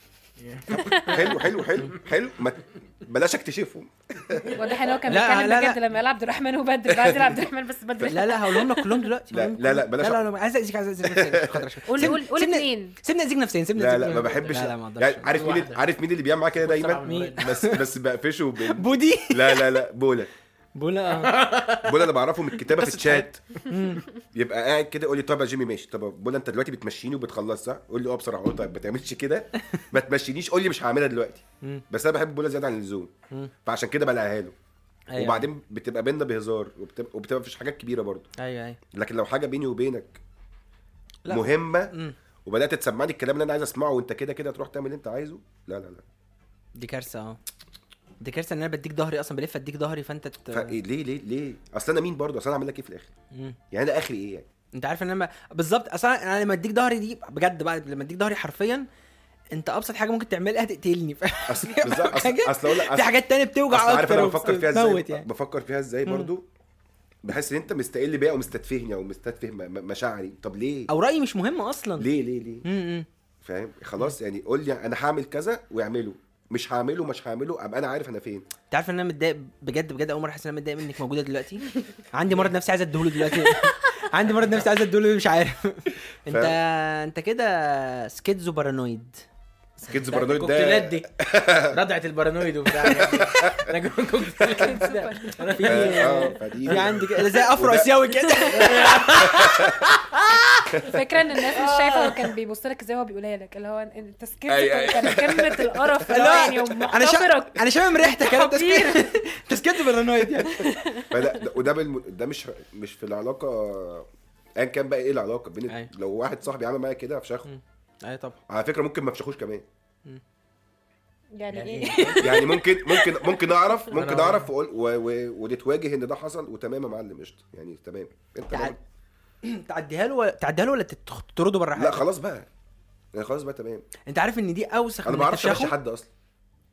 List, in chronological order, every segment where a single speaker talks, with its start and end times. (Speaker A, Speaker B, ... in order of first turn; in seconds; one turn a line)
Speaker A: 0.4-2.0
Speaker B: 0.8-1.3
Speaker C: 1.1-4.6
Speaker A: 4.4-4.8
Speaker B: 4.5-9.1
Speaker D: 5.1-5.8
Speaker C: 6.9-7.4
Speaker D: 8.0-15.2
Speaker C: 9.3-10.2
Speaker C: 11.0-12.1
Speaker B: 11.9-12.9
Speaker C: 13.8-20.3
Speaker A: 14.2-14.6
Speaker A: 15.2-15.8
Speaker A: 16.6-17.5
Speaker D: 17.0-17.8
Speaker D: 18.7-19.8
Speaker D: 20.8-21.3
Speaker A: 21.1-22.1
Speaker C: 21.8-23.4
Speaker D: 22.8-24.0
Speaker C: 24.3-33.1
Speaker C: 33.6-34.5
Speaker D: 35.1-35.5
Speaker C: 35.1-38.3
Speaker D: 38.4-38.8
Speaker C: 38.9-40.2
Speaker D: 41.2-42.1
Speaker C: 41.3-41.9
Speaker C: 42.5-46.0
Speaker D: 46.7-47.4
Speaker D: 48.2-50.7
Speaker C: 50.5-53.1
Speaker D: 53.3-53.6
Speaker C: 53.7-54.5
Speaker D: 54.7-58.9
Speaker D: 59.5-65.3
Speaker C: 61.5-63.2
Speaker C: 63.7-66.5
Speaker C: 67.2-70.9
Speaker D: 70.9-72.1
Speaker C: 72.0-72.7
Speaker D: 72.6-73.1
Speaker C: 73.4-78.5
Speaker D: 78.7-89.2
Speaker C: 86.3-86.5
Speaker C: 89.8-91.8
Speaker A: 89.8-91.1
Speaker A: 91.7-97.0
Speaker C: 92.7-93.7
Speaker B: 94.6-95.5
Speaker D: 95.5-99.0
Speaker C: 95.7-98.0
Speaker A: 98.5-100.8
Speaker C: 99.1-99.9
Speaker B: 100.8-109.1
Speaker A: 101.5-102.3
Speaker C: 104.5-106.7
Speaker D: 106.1-110.9
Speaker B: 110.4-111.4
Speaker C: 111.1-117.5
Speaker D: 117.4-118.4
Speaker C: 118.5-119.6
Speaker B: 121.3-123.4
Speaker A: 121.5-122.4
Speaker C: 122.2-128.8
Speaker A: 123.9-124.5
Speaker D: 129.4-132.0
Speaker C: 131.8-132.5
Speaker C: 133.1-133.8
Speaker D: 134.1-135.8
Speaker C: 135.0-136.1